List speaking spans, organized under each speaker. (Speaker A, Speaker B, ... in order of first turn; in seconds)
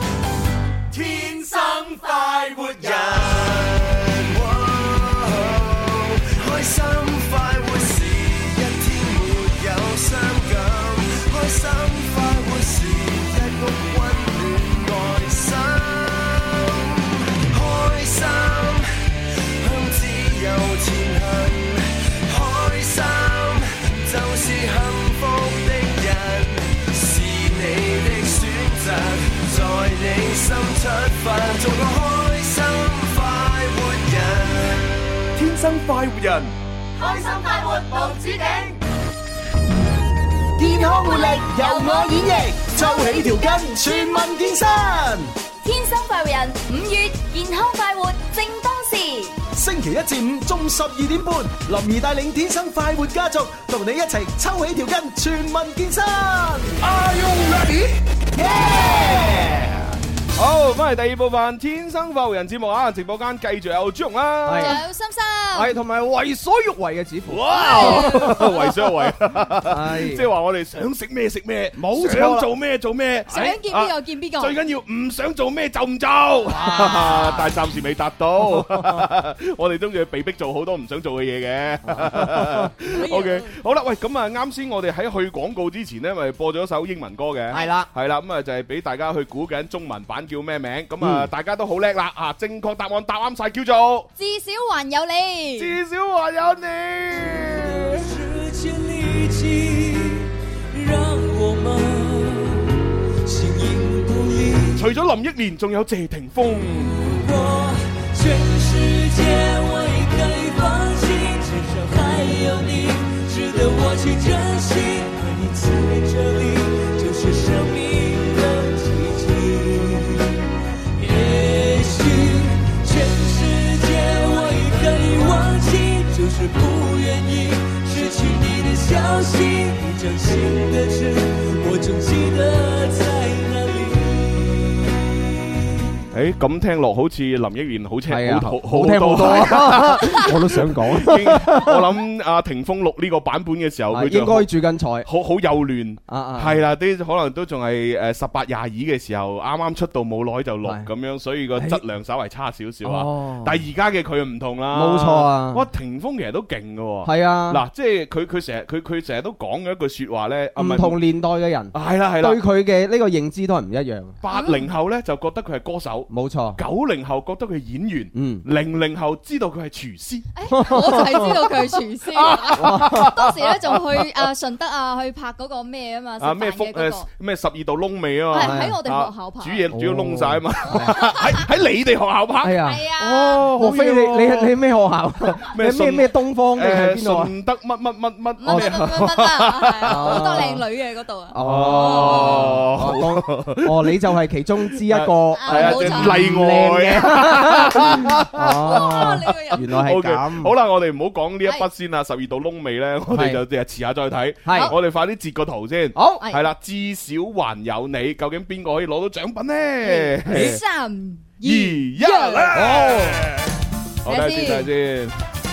Speaker A: 1.0-18.9, 19.6-34.8, 40.5-45.3, 49.5-59.9
Speaker B: 35.4-36.5, 60.4-64.8, 67.3-94.1, 95.6-98.1, 104.7-107.0, 136.1-144.5, 145.0-161.0, 161.7-162.4, 164.2-170.3, 172.1-174.2, 176.2-184.6, 185.5-190.6, 191.4-194.0, 194.9-210.6, 211.4-215.1
Speaker C: 37.0-38.8, 40.6-44.8, 45.6-49.3, 64.5-65.7, 67.5-68.8, 73.3-74.6, 82.9-83.5, 94.2-95.8, 164.3-164.7, 170.3-177.1, 178.3-179.7, 180.9-181.4, 182.6-183.5, 188.4-192.5, 195.3-196.3, 198.6-199.7, 204.5-204.8, 206.2-206.5, 209.8-212.5, 214.1-214.7
Speaker D: 64.4-64.8, 65.5-68.4, 69.7-70.2, 71.8-72.5, 76.5-77.5, 78.5-79.0, 81.9-82.7, 87.5-87.9, 91.0-91.3, 138.1-141.8, 143.9-145.1, 146.1-146.6, 152.8-153.5, 154.7-155.6, 157.0-157.6, 160.6-164.2, 166.1-166.6, 168.1-168.4, 170.5-171.4, 172.5-173.1, 178.3-178.7, 179.7-180.9, 182.4-182.8, 183.6-187.3, 188.4-188.8, 189.8-190.6, 191.3-200.5, 203.1-203.4, 204.4-204.7, 205.9-206.2, 210.3-210.6, 212.5-213.3
Speaker E: 98.0-102.6, 103.3-104.8, 107.0-120.3, 121.0-134.2